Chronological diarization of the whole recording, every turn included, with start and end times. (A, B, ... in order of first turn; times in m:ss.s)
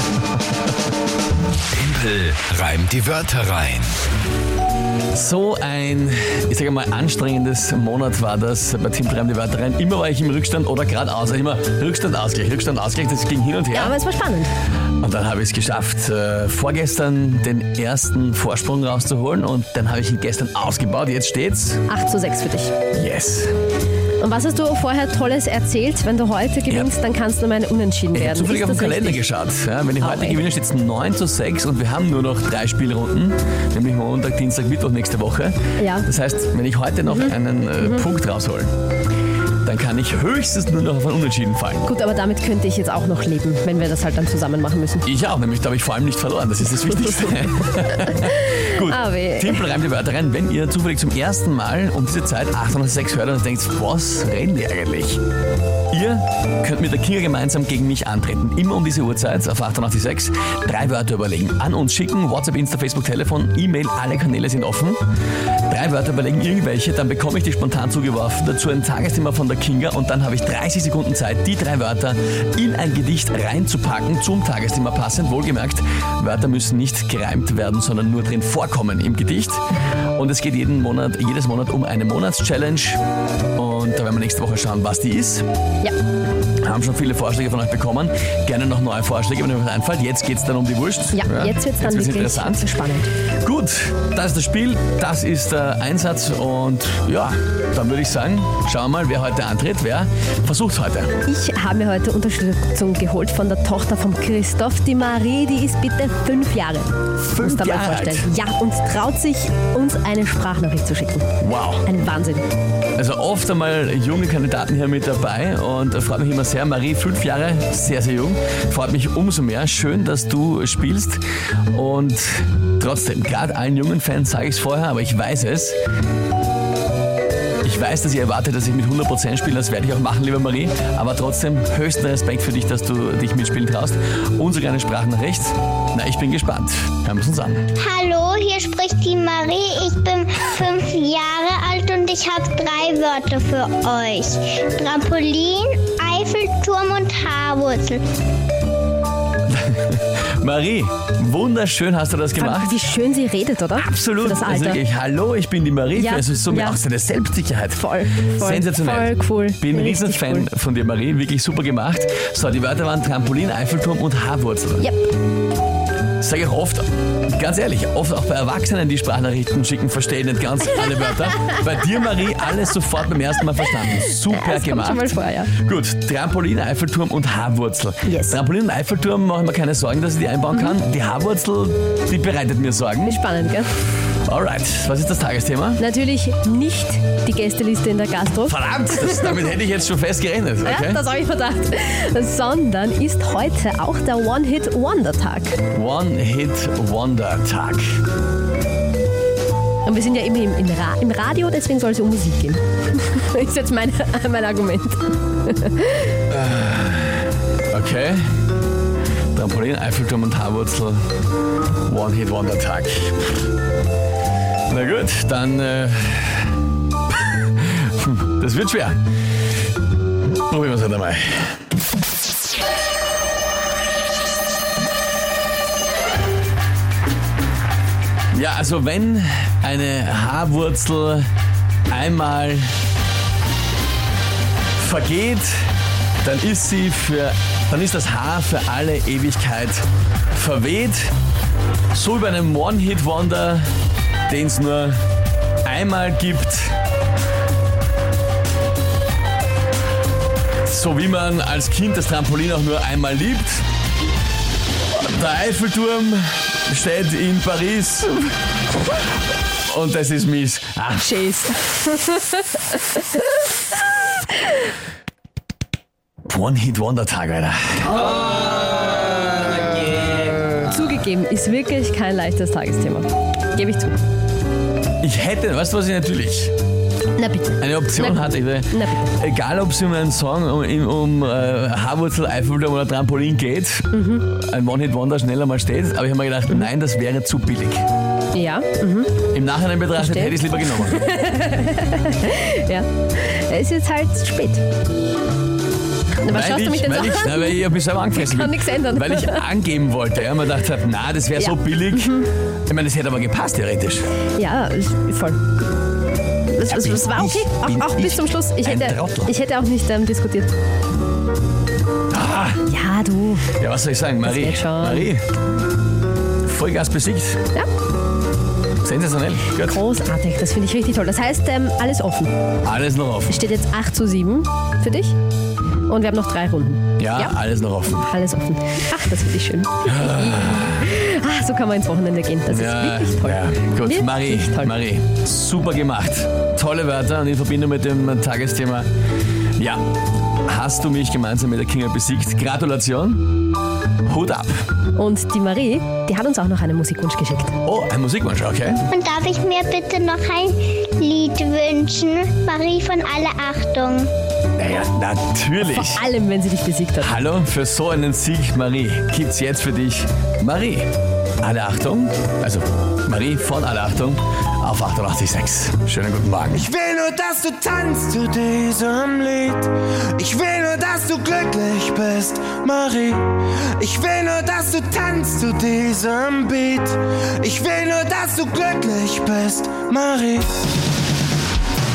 0:01.7-0:03.9 A
0:05.1-0:14.0 B
0:13.7-0:14.5 C
0:15.0-0:21.8 B
0:21.9-0:22.7 C
0:22.9-0:23.5 B
0:24.2-0:29.2 C
0:26.7-0:26.9 B
0:28.1-0:38.7 B
0:30.0-0:30.4 C
0:35.8-0:36.1 C
0:37.1-0:38.1 C
0:39.6-0:41.9 B
0:41.8-0:45.0 C
0:45.0-0:55.2 B
0:48.1-0:49.7 C
0:55.9-1:05.0 B
1:05.7-1:19.6 B
1:20.1-1:23.0 B
1:23.5-1:25.4 B
1:26.6-1:32.7 B
1:31.1-1:33.1 C
1:33.4-1:41.2 B
1:41.2-1:51.3 C
1:47.2-1:48.3 B
1:51.4-1:51.9 B
1:51.8-1:52.5 C
1:53.0-2:05.8 B
2:07.6-2:17.7 B
2:17.8-2:28.0 D
2:29.5-2:32.8 B
2:32.4-2:34.8 C
2:33.7-2:44.9 B
2:35.9-2:36.8 C
2:37.7-2:40.5 C
2:44.8-2:45.0 C
2:46.2-3:03.2 B
2:54.3-2:55.5 C
2:58.0-2:58.4 C
3:03.0-3:03.7 C
3:04.1-3:05.8 B
3:05.8-3:09.5 C
3:08.5-3:11.0 B
3:10.6-3:15.6 C
3:15.7-3:18.0 B
3:19.8-3:26.2 C
3:26.3-3:28.3 B
3:29.3-3:31.0 B
3:31.8-3:33.3 B
3:34.7-3:39.0 B
3:40.3-3:41.6 B
3:48.3-3:51.3 B
3:51.9-3:52.7 B
3:54.8-3:55.6 B
3:56.2-4:01.1 B
4:01.9-4:03.7 B
4:04.3-4:05.0 B
4:05.6-4:06.8 B
4:10.6-4:13.6 B
4:14.9-4:18.4 B
4:19.6-4:21.2 B
4:21.0-4:23.2 C
4:26.2-4:28.0 B
4:30.6-4:33.9 C
4:35.0-4:36.5 B
4:37.2-4:39.1 C
4:37.6-4:47.8 B
4:43.9-4:44.3 C
4:48.3-4:49.2 C
4:49.3-4:51.1 B
4:50.0-4:54.6 C
4:56.2-4:59.5 C
4:56.2-5:04.1 B
5:01.4-5:02.3 C
5:04.3-5:05.4 C
5:06.5-5:10.5 C
5:06.7-5:09.3 B
5:12.1-5:12.6 B
5:12.6-5:13.5 C
5:13.6-5:15.2 B
5:14.2-5:15.1 C
5:16.4-5:17.4 B
5:18.8-5:19.8 B
5:19.6-5:22.3 C
5:22.6-5:23.4 B
5:23.3-5:25.1 C
5:25.9-5:27.4 C
5:27.0-5:28.1 B
5:28.1-5:34.7 C
5:29.8-5:30.9 B
5:32.5-5:38.9 B
5:39.6-5:39.9 B
5:40.4-5:43.3 B
5:44.0-5:44.6 B
5:45.0-5:47.6 C
5:47.6-5:48.8 B
5:48.9-5:54.1 D
5:54.6-5:56.0 B
5:55.6-5:57.2 C
5:57.0-6:06.7 B
6:06.6-6:20.5 E